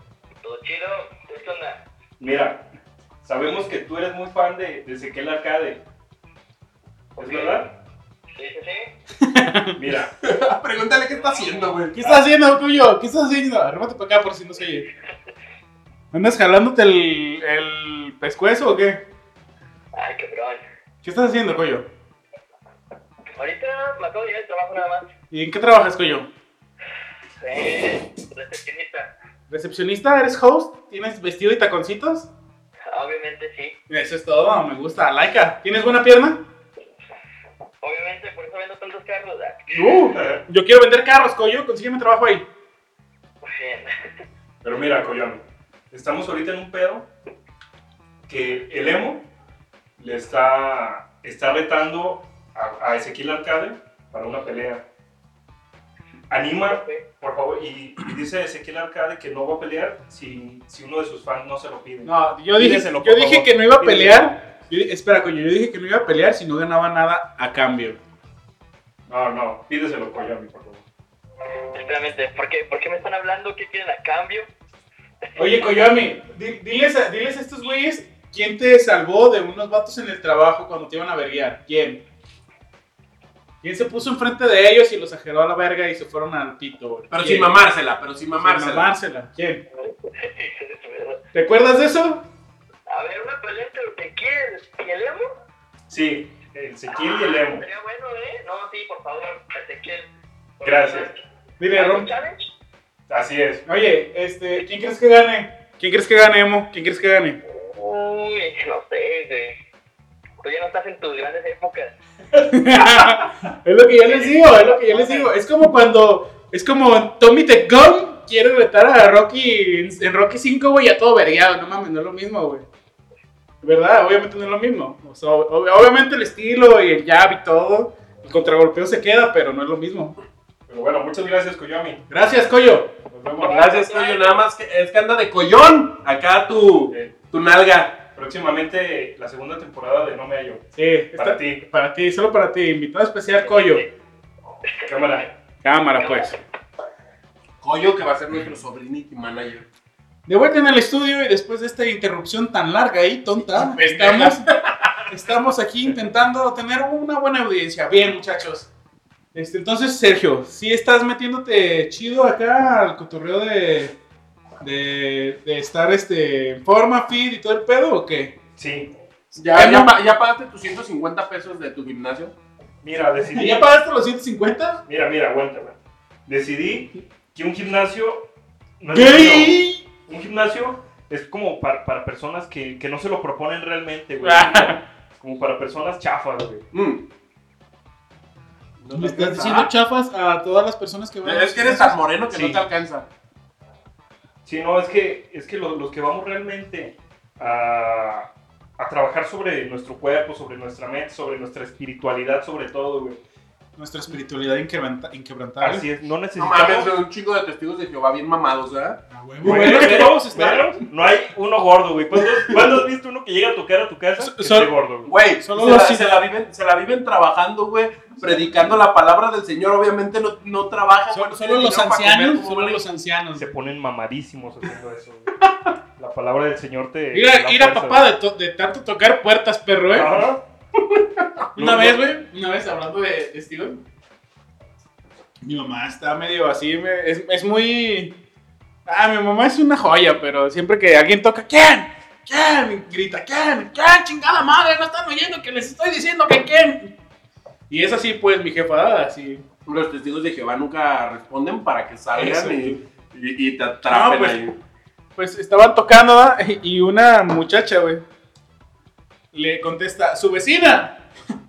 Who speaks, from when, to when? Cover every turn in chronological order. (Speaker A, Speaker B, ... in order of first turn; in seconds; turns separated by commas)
Speaker A: 0.4-1.8, Speaker B: 2.2-2.6, Speaker B: 3.2-5.8, Speaker A: 7.2-7.6, Speaker B: 7.2-7.7, Speaker A: 8.3-8.9, Speaker C: 9.2-9.8, Speaker B: 9.8-10.1, Speaker D: 10.2-11.9, Speaker A: 11.1-11.8, Speaker C: 11.9-14.8, Speaker C: 16.1-19.1, Speaker A: 19.9-20.6, Speaker C: 21.0-21.9, Speaker A: 23.4-25.1, Speaker C: 25.3-26.3, Speaker A: 27.4-29.1, Speaker C: 29.5-32.3, Speaker A: 32.9-33.7, Speaker C: 33.9-36.4, Speaker A: 37.8-40.0, Speaker C: 39.7-42.5, Speaker B: 40.1-40.4, Speaker A: 43.4-43.9, Speaker B: 44.6-47.1, Speaker B: 48.3-49.2, Speaker B: 50.0-54.8, Speaker B: 56.3-64.3, Speaker A: 56.7-57.0, Speaker C: 62.0-68.0, Speaker B: 69.1-70.8, Speaker A: 71.7-74.5, Speaker C: 75.3-82.0, Speaker C: 83.6-87.5, Speaker D: 87.1-88.9, Speaker C: 88.4-89.6, Speaker A: 89.8-91.2, Speaker C: 91.3-92.2, Speaker A: 92.9-95.2, Speaker B: 95.9-97.6, Speaker A: 96.9-100.1, Speaker A: 100.6-101.2, Speaker B: 100.6-101.1, Speaker C: 101.6-102.1, Speaker A: 101.7-102.5, Speaker B: 103.1-103.6, Speaker C: 103.7-107.4, Speaker A: 107.5-109.5, Speaker A: 110.4-111.9, Speaker C: 112.4-122.7, Speaker B: 114.1-115.2, Speaker C: 123.6-130.2, Speaker B: 130.7-132.0, Speaker C: 132.1-132.9, Speaker B: 133.1-133.7, Speaker D: 133.4-138.0, Speaker A: 133.4-134.3, Speaker B: 138.1-141.6, Speaker C: 140.7-143.8, Speaker B: 144.8-145.3, Speaker C: 145.6-146.3, Speaker A: 146.0-146.3, Speaker D: 147.6-149.7, Speaker C: 150.3-154.4, Speaker D: 153.5-155.0, Speaker C: 155.1-158.7, Speaker C: 159.3-163.9, Speaker C: 164.6-168.3, Speaker B: 168.6-168.9, Speaker D: 169.3-172.3, Speaker C: 169.5-169.9, Speaker B: 172.8-173.6, Speaker C: 173.3-174.8, Speaker B: 174.8-178.3, Speaker B: 178.8-186.6, Speaker C: 178.9-179.8, Speaker C: 184.2-184.8, Speaker D: 186.7-187.0, Speaker D: 188.8-189.7, Speaker C: 188.9-192.6, Speaker D: 191.2-193.1, Speaker B: 194.4-203.2, Speaker C: 203.8-205.8, Speaker B: 205.6-206.9, Speaker D: 206.3-209.9, Speaker C: 209.1-210.8, Speaker B: 209.4-215.1, Speaker C: 214.2-214.7, Speaker D: 215.1-222.8, Speaker C: 215.4-216.2, Speaker C: 218.2-218.7, Speaker C: 221.1-223.5, Speaker B: 223.3-225.3, Speaker B: 226.0-228.1, Speaker C: 227.1-230.2, Speaker B: 229.9-230.4, Speaker D: 230.8-232.0, Speaker C: 231.6-233.8, Speaker C: 235.4-238.2, Speaker C: 238.8-246.9, Speaker C: 247.7-249.4, Speaker D: 249.7-254.6, Speaker C: 252.1-252.8, Speaker C: 253.9-254.4, Speaker C: 255.2-258.0, Speaker C: 259.3-261.0